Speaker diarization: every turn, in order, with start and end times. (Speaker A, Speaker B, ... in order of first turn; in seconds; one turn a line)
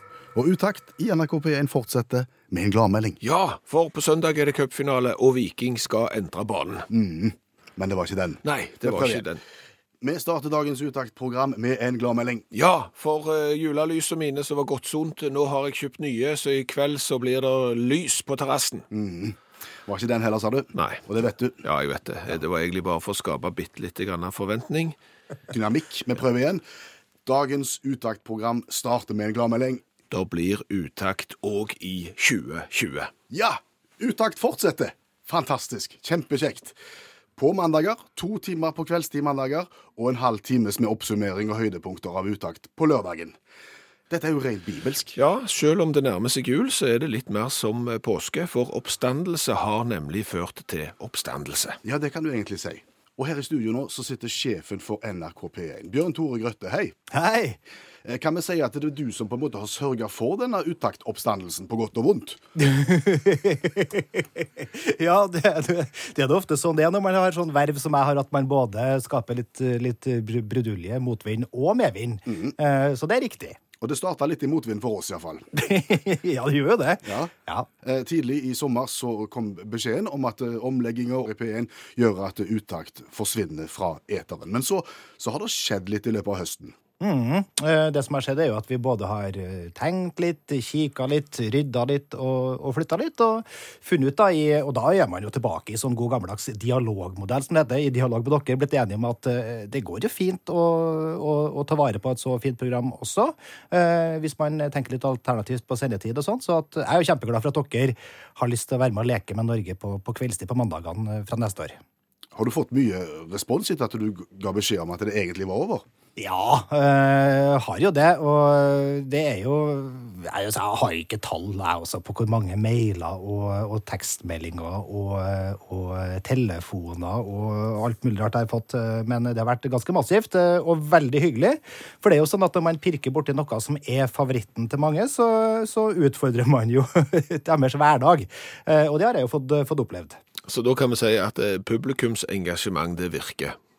Speaker A: 0.3-3.2
Speaker B: 3.2-6.9
Speaker A: 6.9-9.3
Speaker B: 8.4-9.4
Speaker A: 10.0-12.4
Speaker B: 12.5-18.9
Speaker A: 18.9-21.6
Speaker B: 20.8-21.0
Speaker B: 21.6-25.0
Speaker A: 25.5-26.6
Speaker A: 27.2-29.8
Speaker B: 30.1-33.1
Speaker A: 33.3-36.8
Speaker A: 37.4-43.4
Speaker A: 44.1-45.1
Speaker B: 45.1-51.8
Speaker A: 51.8-57.0
Speaker C: 57.1-57.6
Speaker A: 58.0-62.4
Speaker C: 62.6-73.6
Speaker A: 72.3-72.5
Speaker A: 73.8-75.5
Speaker C: 75.5-77.7
Speaker A: 77.0-86.8
Speaker C: 87.0-111.8
Speaker A: 112.3-115.8
Speaker C: 116.2-140.2
Speaker B: 140.5-143.6